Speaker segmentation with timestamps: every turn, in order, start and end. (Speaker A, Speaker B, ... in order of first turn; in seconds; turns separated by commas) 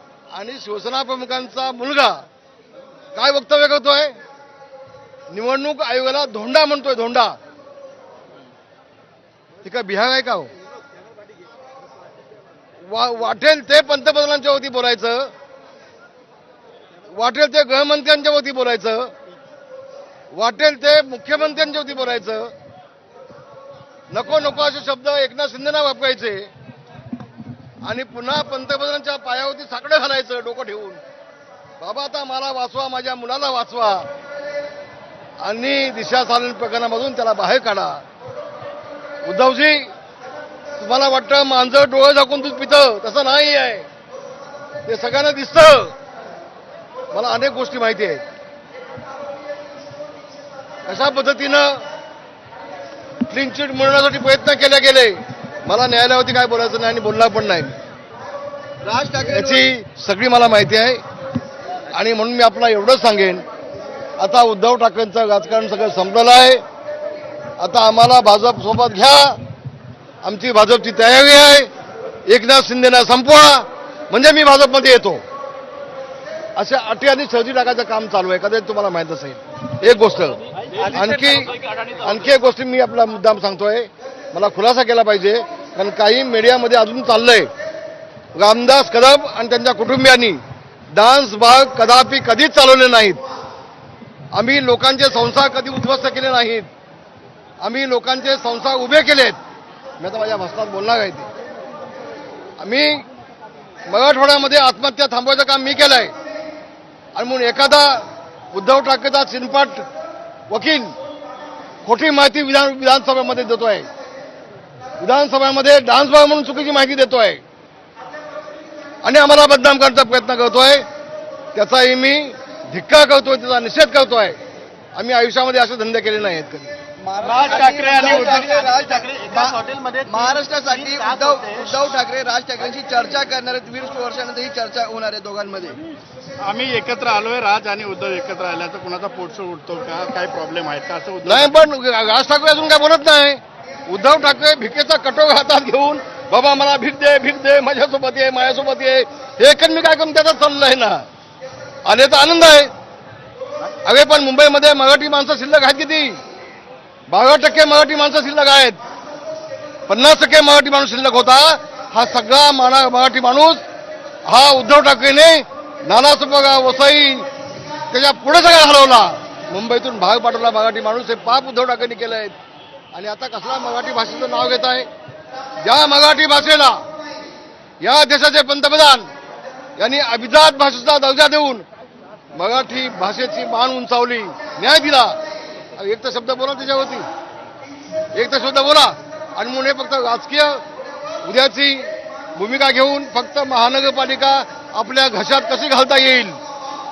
Speaker A: 0.3-2.2, Speaker A: 3.1-4.2, Speaker A: 5.3-7.4, Speaker A: 9.6-10.5, Speaker A: 12.8-15.3, Speaker A: 17.1-19.1, Speaker A: 20.3-22.5, Speaker A: 24.1-26.5, Speaker A: 27.8-31.0, Speaker A: 31.8-34.1, Speaker A: 35.4-38.0, Speaker A: 39.2-39.9, Speaker A: 40.8-43.9, Speaker A: 44.9-45.9, Speaker A: 47.1-48.2, Speaker A: 50.9-51.8, Speaker A: 53.3-57.7, Speaker B: 58.8-59.7, Speaker A: 59.2-61.0, Speaker A: 61.9-63.4, Speaker A: 64.2-66.6, Speaker A: 67.6-69.4, Speaker A: 70.2-71.7, Speaker A: 72.2-75.2, Speaker A: 76.5-87.5, Speaker A: 88.3-93.2, Speaker A: 94.3-96.7, Speaker A: 97.6-99.4, Speaker A: 100.0-101.3, Speaker A: 102.6-103.0, Speaker A: 103.9-106.1, Speaker A: 107.1-109.8, Speaker A: 110.5-110.9, Speaker A: 111.8-113.9, Speaker A: 115.0-117.4, Speaker A: 119.0-120.8, Speaker A: 121.5-124.4, Speaker A: 124.9-126.8, Speaker B: 127.0-135.8, Speaker C: 127.2-131.8, Speaker A: 127.5-128.6, Speaker C: 136.4-141.4, Speaker A: 141.2-151.1, Speaker A: 151.8-152.7, Speaker A: 153.8-156.2, Speaker A: 157.1-158.8, Speaker A: 159.9-163.6, Speaker A: 164.2-167.3, Speaker A: 167.9-172.3, Speaker A: 172.9-174.9, Speaker A: 175.6-176.8, Speaker A: 177.8-179.1, Speaker A: 179.8-181.6, Speaker A: 182.3-185.2, Speaker A: 185.7-187.1, Speaker A: 188.1-190.6, Speaker A: 191.2-196.4